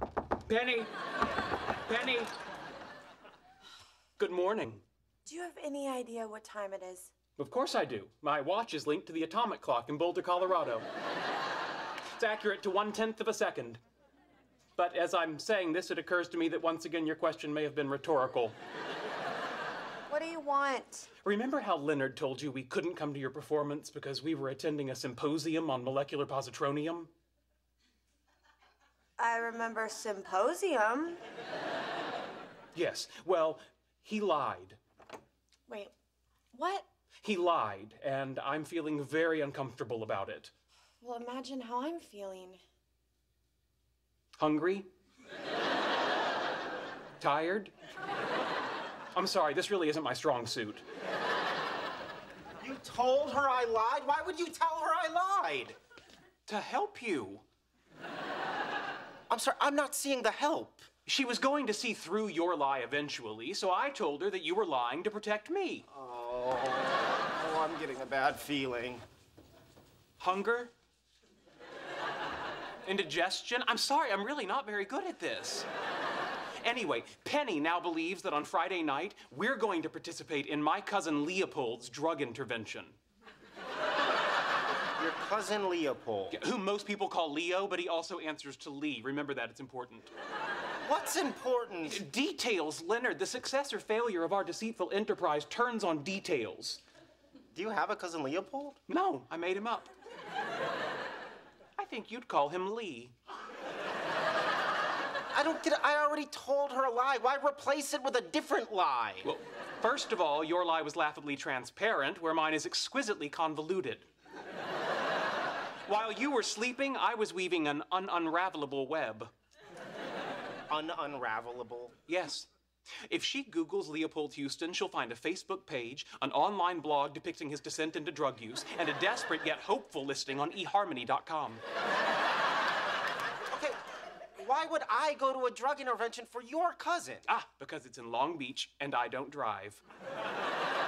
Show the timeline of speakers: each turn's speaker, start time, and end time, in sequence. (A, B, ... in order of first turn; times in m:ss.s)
0:00.5-0:00.9 A
0:01.9-0:02.3 A
0:04.2-0:04.8 A
0:05.3-0:07.1 B
0:07.4-0:10.8 A
0:12.2-0:13.8 A
0:14.8-0:18.6 A
0:20.1-0:21.1 B
0:21.2-0:27.1 A
0:29.2-0:31.2 B
0:32.8-0:34.8 A
0:35.7-0:35.9 B
0:36.5-0:36.9 B
0:37.2-0:40.5 A
0:41.0-0:42.6 B
0:44.4-0:44.9 A
0:47.2-0:47.7 A
0:49.1-0:50.8 A
0:52.6-0:55.8 C
0:56.5-0:57.4 A
0:59.3-1:00.9 C
1:01.1-1:05.9 A
1:05.9-1:09.0 C
1:10.2-1:10.7 A
1:12.8-1:15.7 A
1:16.6-1:23.0 A
1:25.0-1:26.4 C
1:26.3-1:30.1 A
1:30.8-1:32.0 C
1:31.8-1:36.8 A
1:37.5-1:38.8 C
1:38.9-1:39.9 A
1:41.8-1:43.1 A
1:45.3-1:49.3 C
1:49.2-1:54.1 A
1:55.9-1:59.3 A
2:00.7-2:02.0 C
2:02.1-2:02.5 A
2:03.0-2:11.6 A
2:13.5-2:13.8 C
2:14.4-2:17.3 C
2:17.3-2:19.8 A